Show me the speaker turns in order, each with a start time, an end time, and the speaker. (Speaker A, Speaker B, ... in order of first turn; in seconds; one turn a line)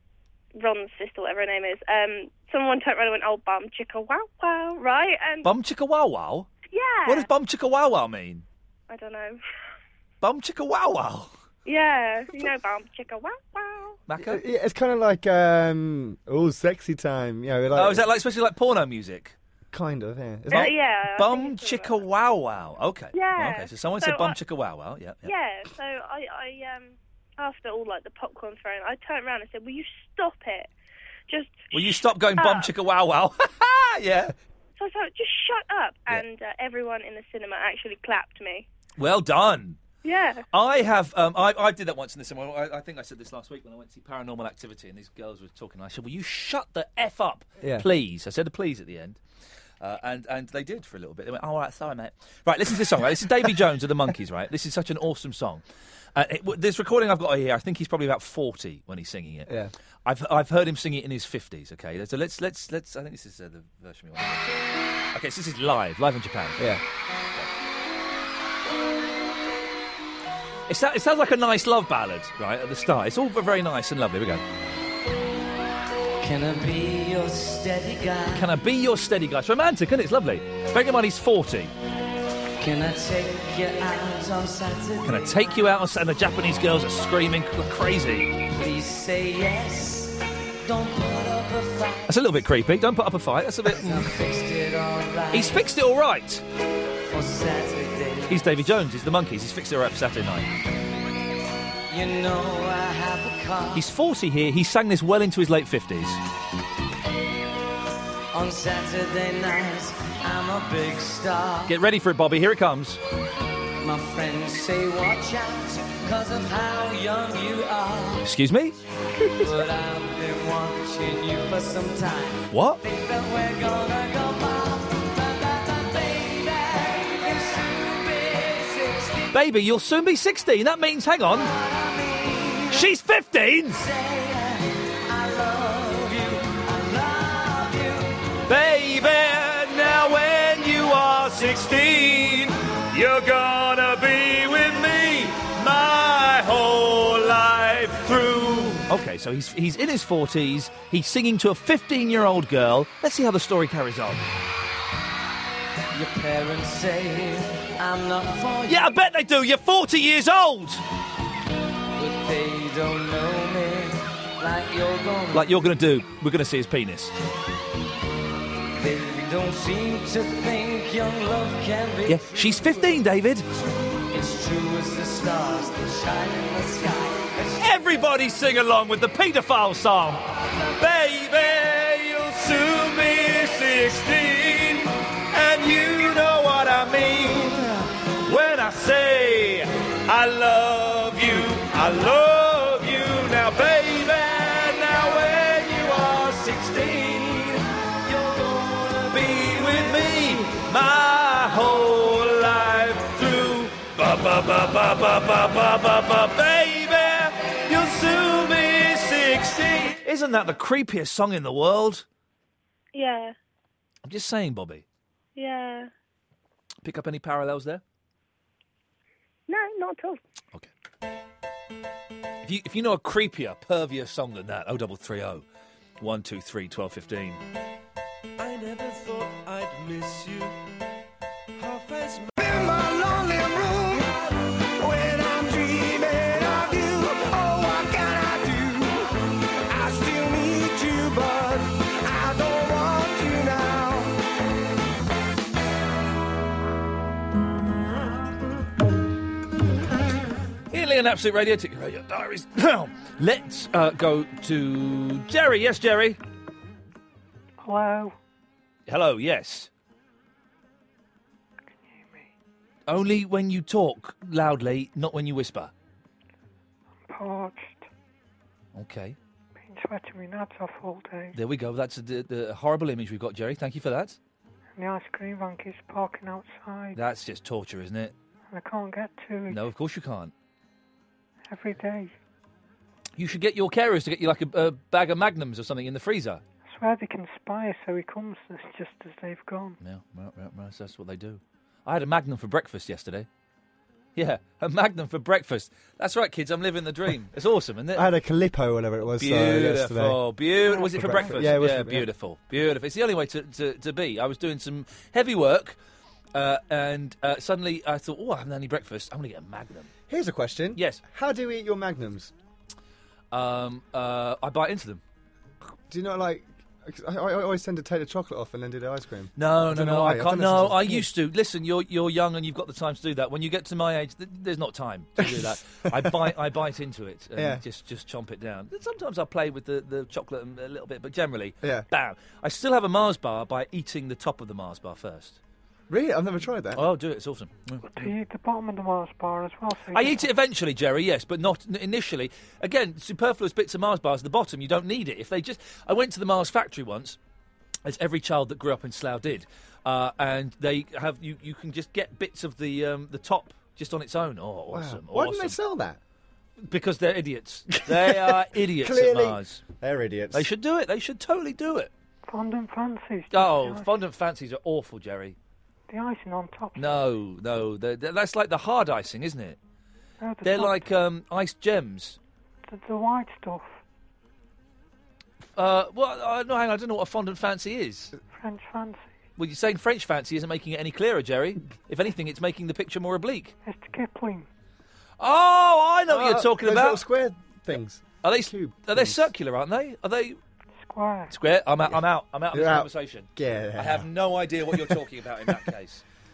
Speaker A: 0.6-5.5
Speaker B: 5.4-6.5
Speaker A: 6.7-7.3
Speaker B: 7.0-8.4
Speaker A: 8.9-9.4
Speaker B: 10.2-11.3
Speaker A: 11.6-14.0
Speaker B: 14.1-14.4
Speaker C: 14.2-18.0
Speaker B: 17.7-19.4
Speaker C: 19.7-20.7
Speaker A: 20.5-22.0
Speaker B: 20.5-25.3
Speaker A: 23.1-24.4
Speaker A: 25.2-30.7
Speaker A: 31.3-32.7
Speaker B: 31.7-34.3
Speaker A: 34.8-38.7
Speaker B: 39.0-39.8
Speaker A: 40.0-40.5
Speaker B: 40.5-49.2
Speaker C: 47.6-47.9
Speaker B: 49.8-55.6
Speaker B: 56.1-59.5
Speaker B: 60.0-64.6
Speaker B: 65.1-66.8
Speaker B: 70.7-74.4
Speaker D: 76.2-78.5
Speaker B: 78.3-81.7
Speaker D: 82.6-85.7
Speaker B: 85.0-88.3
Speaker D: 88.5-92.2
Speaker B: 92.0-94.1
Speaker D: 93.7-95.7
Speaker B: 95.3-96.4
Speaker D: 97.1-98.5
Speaker B: 98.3-100.5
Speaker D: 101.9-103.9
Speaker B: 103.7-106.2
Speaker D: 108.3-111.8
Speaker B: 111.7-113.0
Speaker D: 113.8-118.3
Speaker B: 118.2-118.8
Speaker D: 119.4-129.4
Speaker B: 122.5-122.8
Speaker B: 129.3-131.5
Speaker D: 131.3-132.9
Speaker B: 132.7-133.8
Speaker D: 133.7-138.1
Speaker B: 138.5-154.2
Speaker D: 155.9-158.9
Speaker B: 158.7-160.8
Speaker D: 161.9-165.5
Speaker B: 165.3-167.1
Speaker D: 168.8-172.9
Speaker B: 172.1-173.4
Speaker D: 174.1-177.7
Speaker B: 177.6-212.0
Speaker A: 212.9-213.3
Speaker B: 214.0-214.8
Speaker A: 215.3-215.9
Speaker B: 216.8-217.8
Speaker A: 219.5-220.2
Speaker B: 222.4-225.4
Speaker B: 226.0-227.4
Speaker B: 228.4-230.6
Speaker B: 231.6-232.3
Speaker E: 232.3-234.2
Speaker E: 234.7-244.1
Speaker B: 250.7-256.2
Speaker F: 257.6-258.1
Speaker B: 258.9-259.7
Speaker F: 261.8-262.3
Speaker B: 262.9-265.7
Speaker F: 267.1-267.9
Speaker B: 268.7-269.2
Speaker F: 269.6-271.4
Speaker B: 271.3-274.2
Speaker F: 274.7-277.0
Speaker B: 276.9-278.1
Speaker F: 278.5-279.6
Speaker B: 279.5-280.3
Speaker F: 281.4-282.1
Speaker B: 283.2-286.4
Speaker F: 286.6-289.8
Speaker B: 289.8-293.3
Speaker B: 294.1-298.1
Speaker C: 297.9-302.1
Speaker B: 299.0-305.8
Speaker B: 306.3-309.9
Speaker C: 310.1-312.3
Speaker B: 310.8-311.0
Speaker B: 313.3-315.0
Speaker C: 315.9-321.1
Speaker B: 319.4-335.4
Speaker C: 325.2-326.3
Speaker C: 327.4-327.6
Speaker C: 335.9-336.8
Speaker B: 336.7-338.1
Speaker F: 337.8-340.3
Speaker B: 339.9-347.2
Speaker B: 347.8-355.6
Speaker C: 354.7-356.0
Speaker B: 356.6-359.6
Speaker C: 357.9-360.5
Speaker B: 360.3-361.9
Speaker F: 362.2-363.9
Speaker B: 363.3-365.4
Speaker F: 365.9-367.1
Speaker B: 366.8-369.6
Speaker F: 370.2-370.8
Speaker B: 370.4-372.2
Speaker F: 372.7-373.8
Speaker B: 375.6-378.1
Speaker F: 378.3-379.2
Speaker B: 379.4-383.5
Speaker F: 383.6-384.5
Speaker B: 385.2-387.0
Speaker C: 386.1-389.2
Speaker B: 388.2-390.4
Speaker F: 390.8-391.4
Speaker B: 391.3-396.0
Speaker C: 392.5-394.1